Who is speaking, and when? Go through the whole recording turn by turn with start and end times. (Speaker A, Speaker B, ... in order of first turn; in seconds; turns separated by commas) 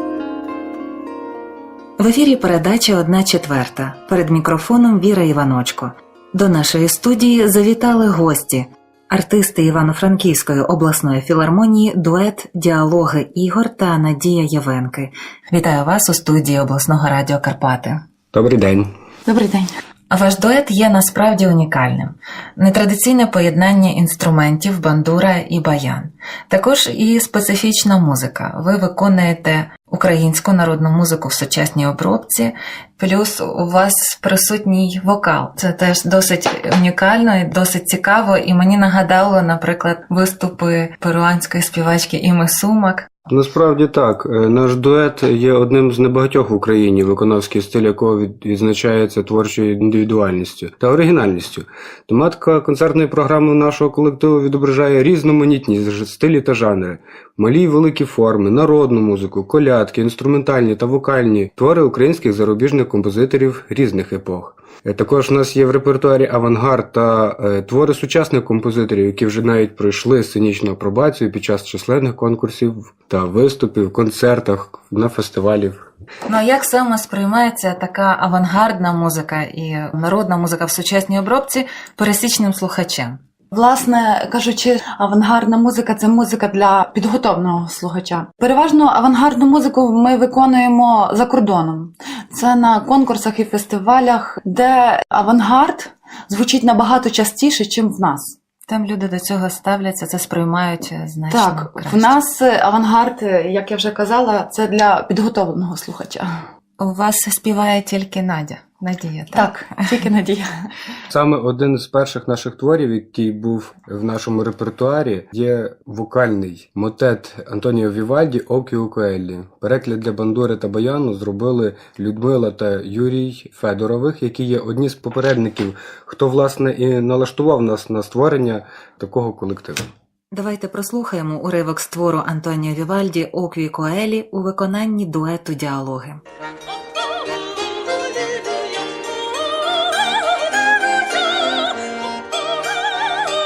Speaker A: 2.0-18.0, Speaker B: 18.3-18.9, Speaker C: 19.3-19.7, Speaker A: 20.1-43.1, Speaker B: 43.3-75.9, Speaker A: 76.3-83.2, Speaker C: 83.5-98.3, Speaker A: 98.7-102.2, Speaker C: 101.3-106.3, Speaker A: 106.8-109.7, Speaker C: 109.3-110.5, Speaker B: 111.1-129.9, Speaker A: 130.3-136.2